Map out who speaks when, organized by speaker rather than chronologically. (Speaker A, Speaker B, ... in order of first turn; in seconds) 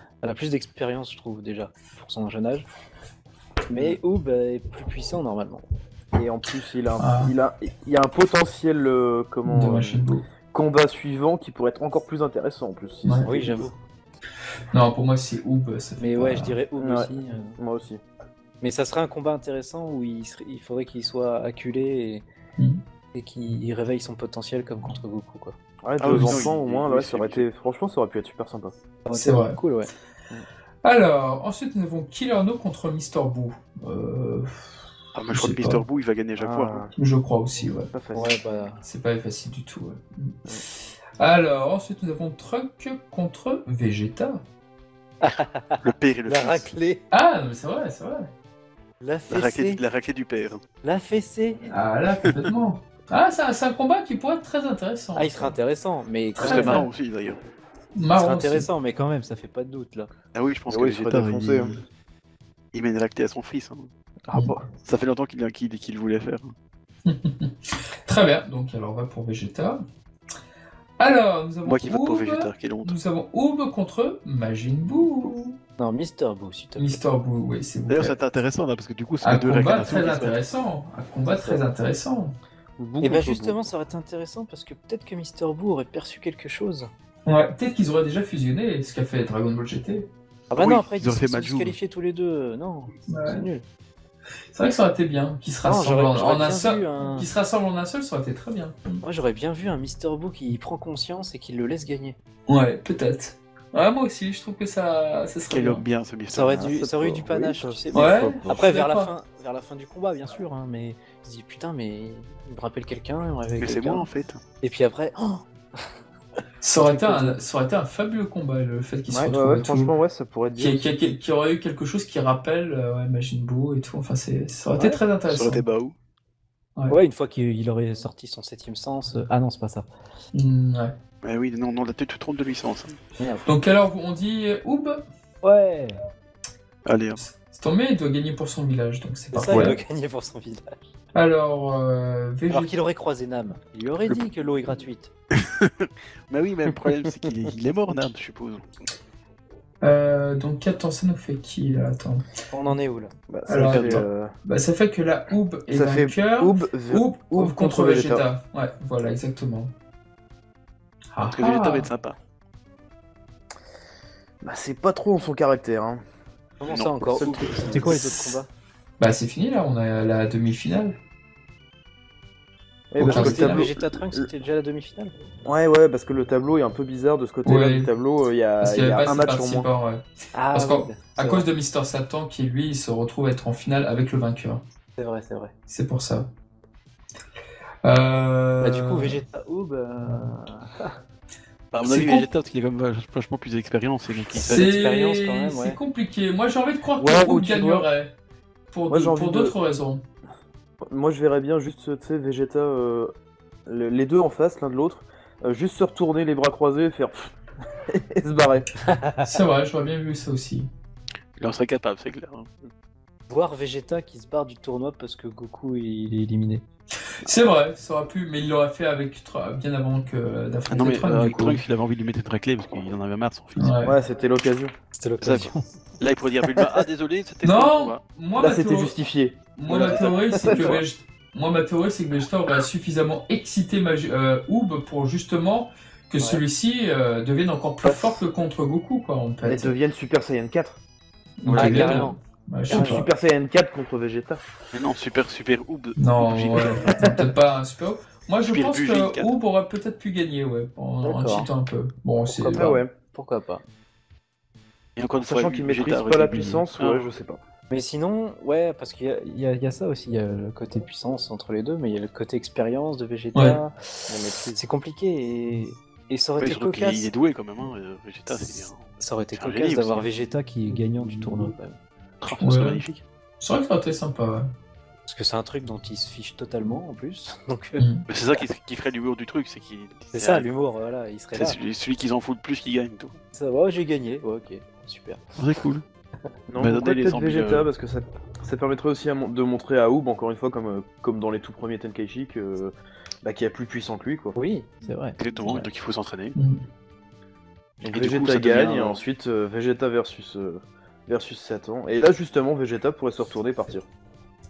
Speaker A: 0.2-2.7, 3.7-5.7, 13.2-13.8, 16.0-17.6, 18.6-22.3, 23.1-25.6, 29.1-29.9, 38.1-38.8, 45.2-47.0, 49.0-49.8, 50.8-51.6, 55.2-56.8, 58.1-60.1, 75.8-77.0, 81.3-81.6, 83.0-86.9, 90.5-93.7, 95.7-97.3, 99.0-102.2, 106.3-114.1, 114.6-115.5, 116.8-117.4, 126.9-129.9, 133.2-133.5, 135.4-136.0, 139.3-140.8, 142.5-145.1, 152.5-153.1, 166.6-168.5, 173.0-175.2, 180.3-181.5, 185.0-185.5, 188.6-191.0, 194.4-195.8, 208.9-209.2, 213.3-216.6, 224.9-225.6, 241.6-242.2, 242.7-243.1, 246.9-247.3, 251.0-251.5, 253.1-253.6, 257.7-267.1, 268.4-271.8, 275.1-277.9, 280.1-281.6, 283.3-285.2, 294.4-295.6
Speaker B: 6.1-13.7, 16.8-18.0, 25.8-28.8, 36.4-36.9, 37.9-38.4, 60.7-61.7, 64.3-64.7, 82.8-83.6, 106.5-108.6, 119.1-120.9, 153.3-154.3, 155.7-158.2, 164.4-166.0, 167.0-168.1, 172.9-174.3, 175.4-179.7, 197.0-197.8, 198.9-199.5, 200.9-203.1, 203.7-207.3, 207.9-208.8, 223.8-224.7, 226.6-226.8, 228.4-230.8, 237.8-238.2, 239.4-240.8, 242.7-244.4, 252.3-252.9, 255.2-257.4, 264.1-264.6, 286.5-294.4, 297.8-303.9
Speaker C: 7.0-7.3, 9.5-10.3, 14.7-16.6, 26.1-26.5, 29.1-29.6, 30.8-34.8, 35.3-35.8, 37.0-37.9, 38.8-40.6, 41.2-44.4, 47.1-48.3, 51.7-55.6, 56.4-56.9, 58.0-58.7, 64.3-64.6, 67.0-69.8, 71.0-75.6, 76.8-78.2, 79.2-82.3, 87.3-90.1, 93.1-93.4, 94.5-99.0, 102.5-105.8, 107.9-109.1, 116.6-119.9, 120.6-125.7, 130.3-130.9, 133.5-135.1, 137.2-139.8, 141.1-142.7, 149.8-152.2, 153.5-159.7, 161.1-161.9, 169.0-171.0, 173.0-173.7, 177.4-177.9, 178.6-184.6, 185.7-186.3, 187.8-189.2, 191.8-192.3, 194.4-198.1, 198.7-200.0, 209.2-210.7, 217.1-221.6, 223.6-224.0, 227.4-229.0, 229.6-239.8, 241.4-243.1, 246.0-252.8, 263.4-263.6, 272.3-272.8, 273.4-274.5, 277.8-278.1, 296.4-296.6
Speaker D: 26.0-27.5, 35.1-36.9, 45.8-46.7, 49.3-50.6, 56.4-57.4, 60.3-61.8, 62.7-63.9, 64.8-66.5, 71.7-73.0, 77.9-80.4, 90.5-91.8, 105.5-106.7, 113.6-114.4, 125.3-126.0, 131.2-133.0, 136.9-137.2, 145.3-148.7, 153.6-154.1, 161.3-162.2, 166.7-168.1, 191.7-194.7, 211.4-212.5, 220.7-223.8, 225.2-228.0, 229.7-230.7, 241.4-242.1, 244.7-247.0, 248.5-249.3, 255.0-257.1, 266.4-270.1, 272.2-273.0, 278.1-280.5, 281.4-283.2, 285.4-285.8, 286.6-287.7, 295.2-296.4, 297.8-299.0